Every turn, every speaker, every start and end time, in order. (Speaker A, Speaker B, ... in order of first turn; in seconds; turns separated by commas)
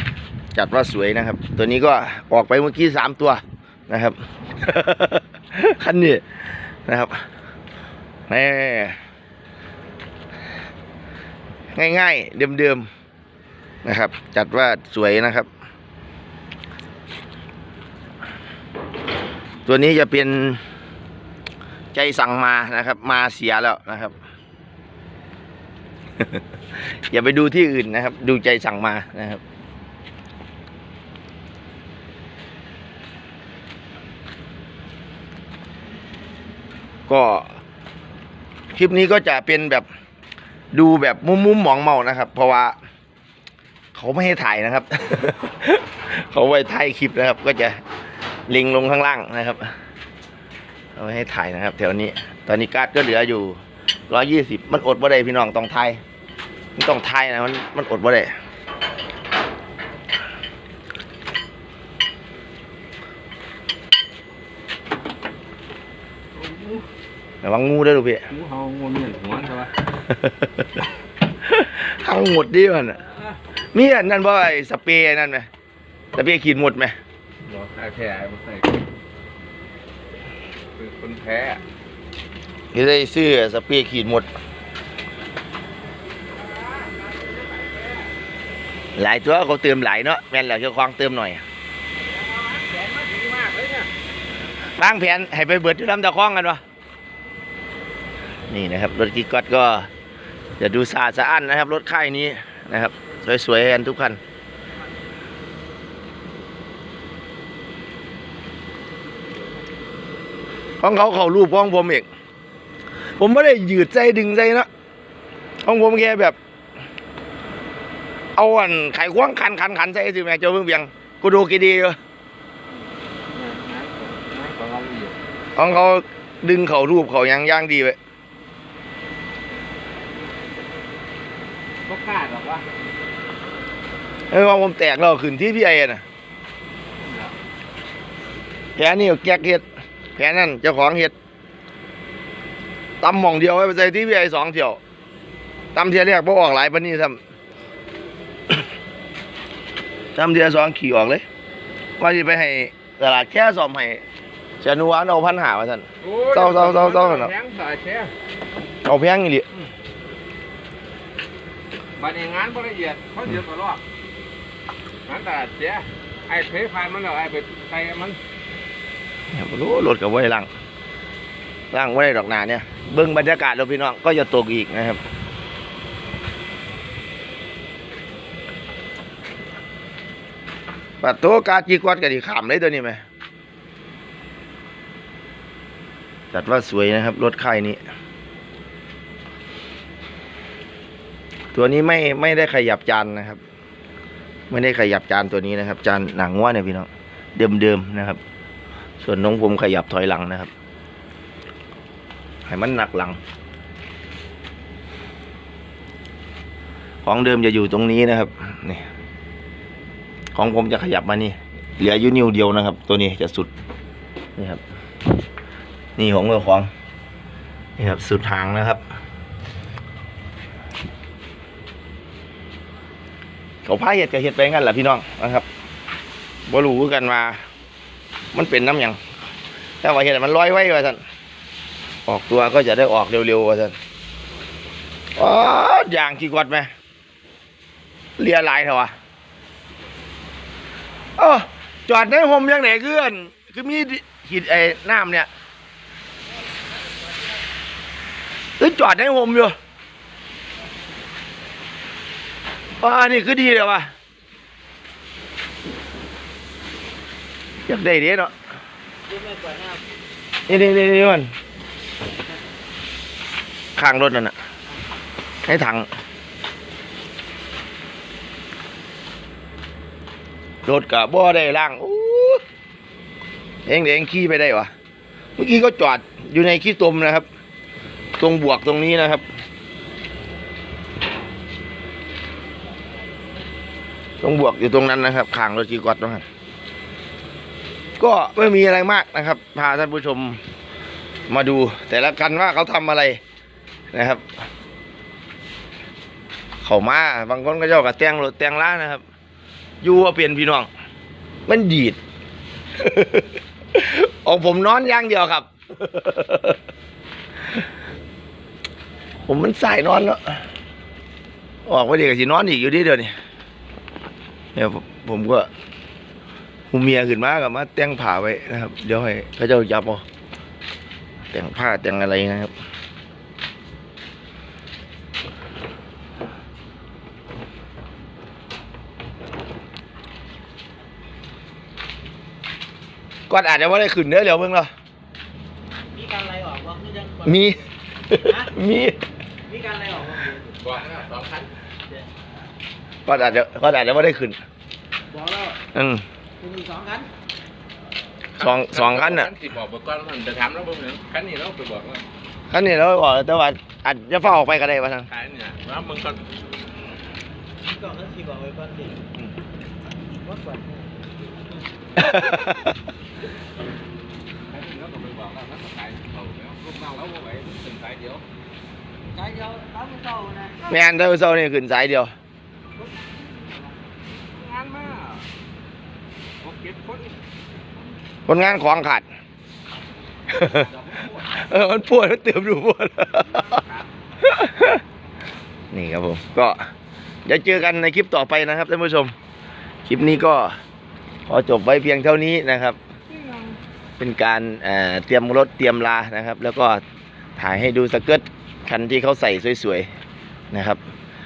Speaker A: 0.5-7.2, Speaker A: 8.3-9.0, Speaker A: 11.7-12.9, Speaker A: 13.8-15.5, Speaker A: 19.7-20.6, Speaker A: 21.9-24.1, Speaker A: 26.2-29.4, Speaker A: 37.1-37.6, Speaker A: 38.7-39.9, Speaker A: 40.7-42.8, Speaker A: 44.0-47.8, Speaker A: 48.5-49.7, Speaker A: 51.0-56.0, Speaker A: 56.8-58.3, Speaker B: 66.3-66.9, Speaker A: 67.4-68.3, Speaker B: 68.3-69.7, Speaker A: 70.1-70.7, Speaker A: 71.4-73.0, Speaker A: 73.7-75.5, Speaker A: 76.2-77.0, Speaker B: 77.5-78.8, Speaker B: 80.8-81.6, Speaker A: 82.7-84.3, Speaker B: 86.3-88.1, Speaker A: 89.0-91.4, Speaker B: 92.0-93.9, Speaker A: 94.8-96.6, Speaker A: 98.5-99.9, Speaker A: 100.6-104.2, Speaker A: 110.8-112.1, Speaker A: 113.2-114.7, Speaker A: 115.6-116.4, Speaker A: 118.4-122.0, Speaker B: 123.3-125.2, Speaker A: 125.6-128.0, Speaker B: 131.9-132.7, Speaker A: 134.3-136.0, Speaker B: 137.0-137.4, Speaker A: 138.8-139.7, Speaker A: 140.2-141.1, Speaker A: 143.0-144.8, Speaker A: 145.7-147.2, Speaker A: 150.2-151.2, Speaker A: 152.0-154.0, Speaker A: 154.6-157.3, Speaker B: 156.0-158.1, Speaker A: 158.8-159.5, Speaker B: 162.0-163.8, Speaker B: 165.1-168.2, Speaker A: 169.3-170.5, Speaker A: 171.7-175.0, Speaker A: 181.0-183.0, Speaker A: 186.3-187.8, Speaker A: 191.5-193.4, Speaker A: 194.5-198.2, Speaker A: 199.0-200.5, Speaker A: 202.5-203.2, Speaker A: 207.0-208.9, Speaker A: 210.3-213.5, Speaker A: 216.0-216.7, Speaker A: 217.8-218.8, Speaker A: 223.7-225.5, Speaker A: 226.5-227.4, Speaker A: 228.3-229.0, Speaker A: 229.8-231.0, Speaker A: 232.1-233.8, Speaker A: 235.2-236.7, Speaker A: 238.2-238.9, Speaker A: 241.2-245.3, Speaker A: 248.6-249.6, Speaker A: 252.8-253.9, Speaker A: 257.7-258.3, Speaker C: 259.1-259.8, Speaker A: 260.5-261.3, Speaker A: 263.8-264.4, Speaker A: 265.5-265.9, Speaker A: 270.7-272.4, Speaker A: 273.7-274.7, Speaker A: 275.4-277.3, Speaker A: 278.2-279.2, Speaker A: 284.2-286.2, Speaker A: 288.0-290.4, Speaker A: 291.3-293.2, Speaker A: 293.9-294.2, Speaker A: 296.6-299.0, Speaker A: 299.8-300.7, Speaker A: 301.5-302.0, Speaker A: 302.8-306.6, Speaker A: 309.3-310.4, Speaker A: 311.7-313.1, Speaker A: 314.6-315.5, Speaker A: 316.7-320.0, Speaker A: 321.3-322.5, Speaker A: 333.3-334.7, Speaker C: 335.9-337.3, Speaker A: 337.2-339.0, Speaker C: 338.2-338.5, Speaker C: 339.5-340.6, Speaker B: 340.5-341.5, Speaker A: 343.1-344.4, Speaker C: 345.1-345.6, Speaker A: 345.7-346.0, Speaker C: 346.4-347.1, Speaker B: 348.4-352.0, Speaker A: 348.4-349.3, Speaker A: 352.5-355.1, Speaker B: 355.1-356.2, Speaker C: 357.7-359.0, Speaker C: 360.1-360.9, Speaker A: 362.0-362.7, Speaker B: 364.5-368.2, Speaker C: 369.1-370.7, Speaker A: 370.7-372.1, Speaker B: 373.1-375.3, Speaker B: 376.4-377.2, Speaker A: 378.3-379.1, Speaker A: 380.3-383.6, Speaker B: 380.6-381.1, Speaker B: 383.2-383.9, Speaker A: 384.2-384.8, Speaker A: 385.7-386.7, Speaker A: 387.3-389.1, Speaker A: 389.9-390.6, Speaker A: 391.3-392.8, Speaker B: 393.1-393.6, Speaker A: 394.0-396.8, Speaker A: 397.4-399.9, Speaker A: 400.5-400.8